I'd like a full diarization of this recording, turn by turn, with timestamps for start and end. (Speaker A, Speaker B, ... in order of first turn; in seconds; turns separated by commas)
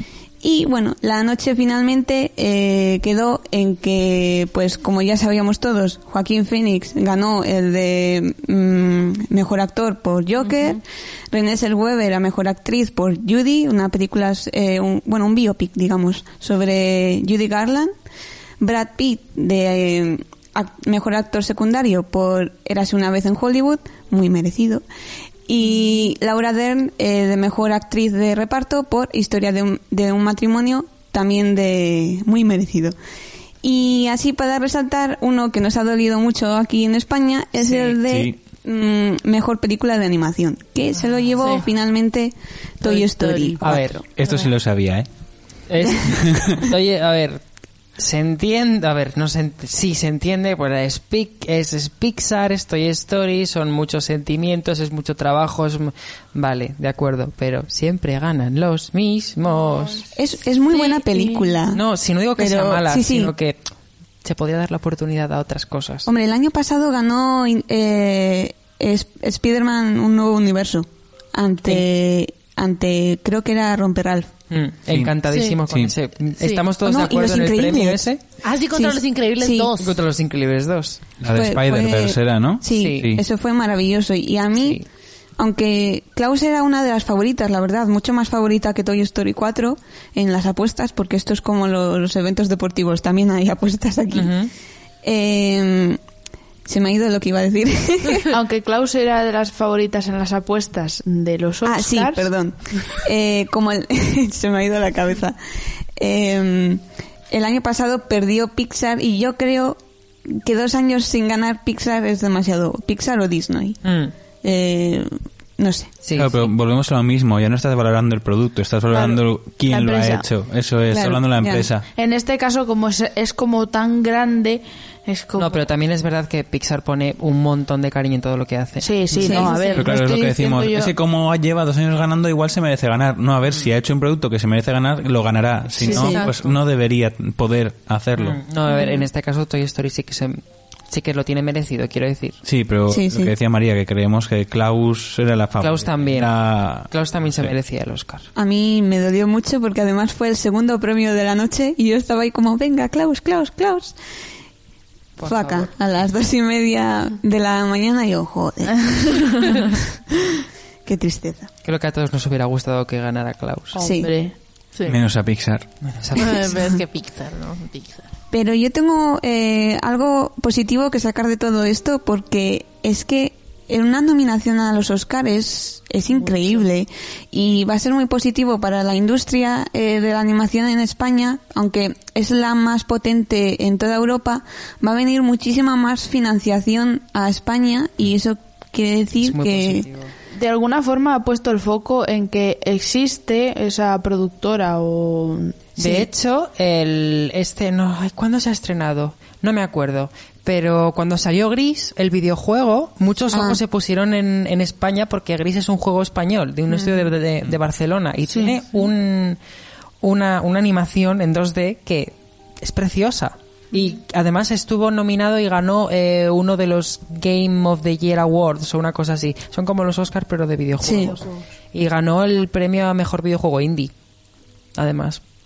Speaker A: 0.4-17.9, Speaker A: 18.6-24.8, Speaker A: 25.5-33.0, Speaker A: 33.6-44.0, Speaker B: 38.0-38.4, Speaker C: 41.4-41.7, Speaker C: 42.9-43.6, Speaker D: 43.6-44.0, Speaker B: 44.2-45.1, Speaker D: 45.7-47.4, Speaker B: 46.1-46.7, Speaker D: 48.0-60.1, Speaker A: 60.1-61.8, Speaker C: 60.7-61.6, Speaker D: 61.7-63.6, Speaker A: 62.4-63.3, Speaker D: 64.2-66.1, Speaker A: 66.1-74.3, Speaker D: 74.5-78.2, Speaker B: 74.9-75.2, Speaker C: 75.3-75.6, Speaker B: 75.7-75.9, Speaker A: 76.8-78.1, Speaker C: 78.4-80.0, Speaker A: 78.8-79.7, Speaker D: 79.8-81.0, Speaker B: 81.2-83.2, Speaker A: 81.3-84.8, Speaker D: 82.7-83.1, Speaker D: 84.6-84.9, Speaker A: 85.4-94.3, Speaker D: 94.1-94.5, Speaker A: 95.0-96.0, Speaker A: 96.7-98.3, Speaker E: 98.3-102.3, Speaker A: 101.6-105.4, Speaker A: 106.0-113.8, Speaker D: 113.8-114.1, Speaker A: 114.4-115.9, Speaker D: 116.0-116.5, Speaker B: 116.2-121.8, Speaker E: 118.9-120.2, Speaker A: 120.9-121.7, Speaker E: 122.0-125.7, Speaker D: 125.4-129.7, Speaker E: 128.8-130.9, Speaker A: 129.2-129.5, Speaker B: 129.3-138.4, Speaker E: 135.8-136.2, Speaker D: 135.8-136.3, Speaker C: 135.9-136.4, Speaker D: 138.2-142.4, Speaker B: 142.4-147.5, Speaker A: 142.9-143.3, Speaker D: 145.6-148.3, Speaker A: 148.4-154.0, Speaker D: 155.2-155.7, Speaker A: 155.2-161.5, Speaker D: 161.6-163.8, Speaker E: 163.7-164.3, Speaker A: 163.8-164.1, Speaker B: 164.8-165.7, Speaker D: 165.8-166.5, Speaker C: 166.2-168.1, Speaker A: 168.3-189.9, Speaker D: 189.2-190.1, Speaker E: 190.3-196.1, Speaker D: 195.8-209.4, Speaker A: 203.3-203.6, Speaker E: 208.3-208.6, Speaker D: 210.0-223.9, Speaker A: 220.8-221.2, Speaker D: 224.8-225.2